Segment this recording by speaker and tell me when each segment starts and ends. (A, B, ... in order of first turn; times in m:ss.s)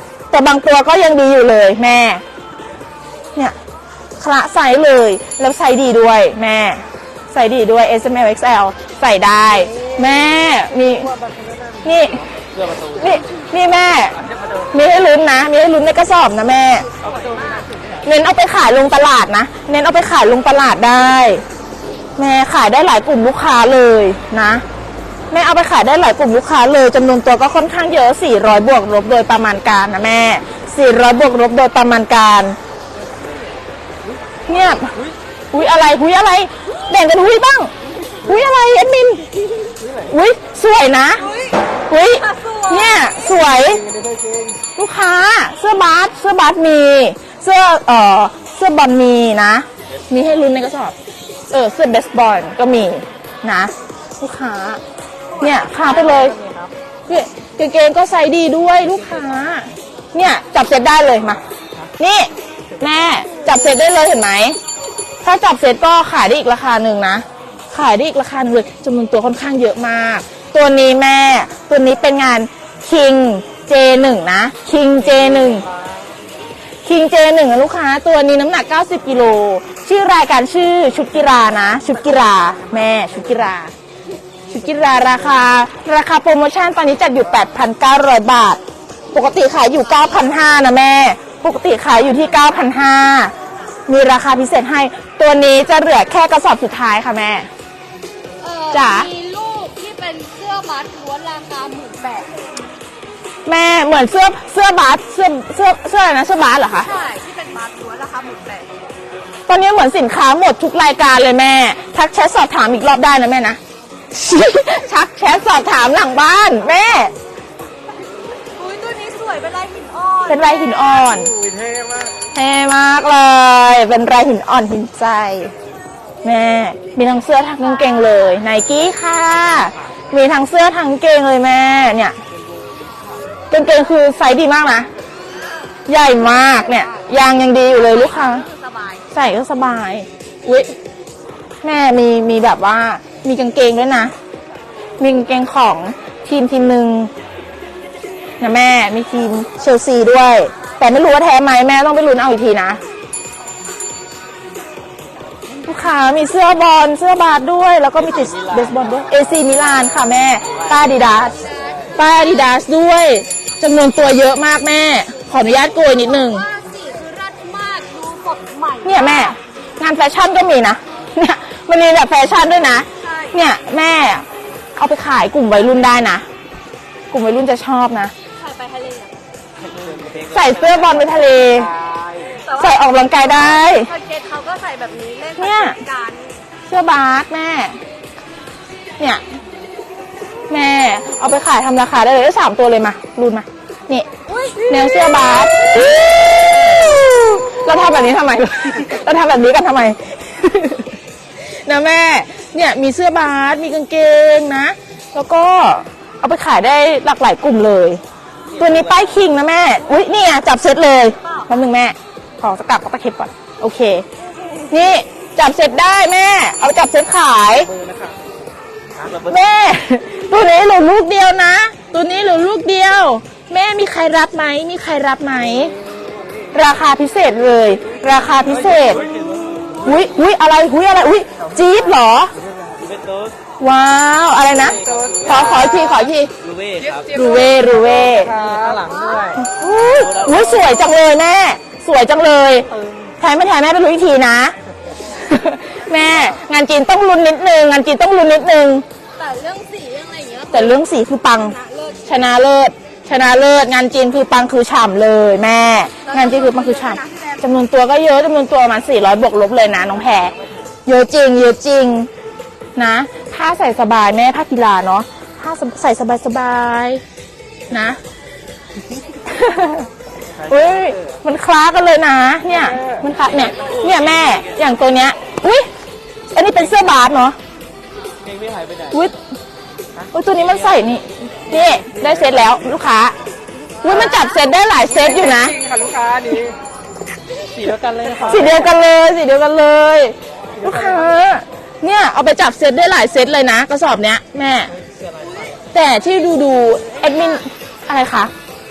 0:00.3-0:02.2 A
0:04.2-0:11.1 A
0:11.2-0:11.8 B
0:11.8-0:12.2 A
0:12.9-0:16.8 A
0:16.8-0:17.7 C
0:18.0-0:21.4 A
0:22.2-0:24.6 A
0:25.3-0:32.6 A
0:34.5-0:34.9 A
0:35.5-0:37.7 A
0:38.2-0:39.2 A
0:40.1-0:41.3 A
0:41.2-0:43.3 C
0:41.9-0:43.8 A
0:43.6-0:44.6 B
0:44.8-0:51.0 A
0:51.5-0:54.8 A
0:55.3-0:56.1 C
0:55.4-0:56.4 A
0:56.1-0:56.7 D
0:57.1-1:01.4 A
1:02.0-1:04.6 A
1:05.2-1:15.7 A
1:16.8-1:23.7 A
1:24.5-1:28.6 A
1:29.1-1:33.3 A
1:33.9-1:37.5 A
1:38.4-1:42.3 C
1:38.7-1:39.1 A
1:43.4-1:46.9 A
1:46.8-1:48.9 C
1:49.5-1:53.6 A
1:54.1-1:57.1 A
1:58.5-2:01.1 C
2:00.3-2:01.3 A
2:01.2-2:02.1 B
2:02.3-2:05.5 A
2:06.2-2:12.2 A
2:07.5-2:08.4 C
2:13.5-2:14.9 A
2:15.2-2:19.1 C
2:15.9-2:18.4 A
2:19.1-2:20.7 A
2:21.6-2:24.1 A
2:25.0-2:27.1 A
2:28.4-2:32.8 A
2:35.6-2:41.3 A
2:41.2-2:42.1 C
2:42.0-2:46.5 A
2:45.8-2:49.6 C
2:48.8-2:54.2 A
2:53.0-2:53.4 C
2:54.8-2:56.2 A
2:57.1-2:58.1 A
2:58.3-2:59.2 C
3:00.3-3:01.7 A
3:02.3-3:06.4 C
3:02.6-3:03.9 A
3:05.4-3:05.8 A
3:06.7-3:07.8 A
3:10.5-3:14.0 A
3:14.2-3:15.7 C
3:14.7-3:20.9 A
3:21.4-3:28.0 A
3:28.6-3:34.0 A
3:28.7-3:29.0 C
3:31.2-3:31.6 C
3:34.5-3:34.8 C
3:34.7-3:37.7 A
3:37.7-3:38.1 B
3:39.3-3:45.7 A
3:46.5-3:49.0 A
3:49.8-3:52.3 A
3:53.6-3:56.3 A
3:54.8-3:56.0 B
3:56.7-3:58.9 B
3:57.1-3:58.3 A
3:58.8-3:59.3 D
3:58.8-3:59.5 C
3:59.4-4:04.5 A
4:05.2-4:08.8 A
4:09.2-4:12.3 C
4:10.5-4:20.3 A
4:16.0-4:17.5 C
4:20.8-4:22.1 A
4:22.8-4:27.0 A
4:27.7-4:28.0 A
4:29.2-4:29.9 A
4:30.4-4:35.7 A
4:36.3-4:37.4 A
4:38.9-4:39.2 A
4:40.1-4:43.2 A
4:43.8-4:44.4 C
4:43.8-4:45.6 A
4:44.9-4:46.5 B
4:47.5-4:48.4 D
4:48.2-4:54.7 A
4:55.1-4:55.6 C
4:55.7-4:58.3 A
4:56.9-4:57.4 C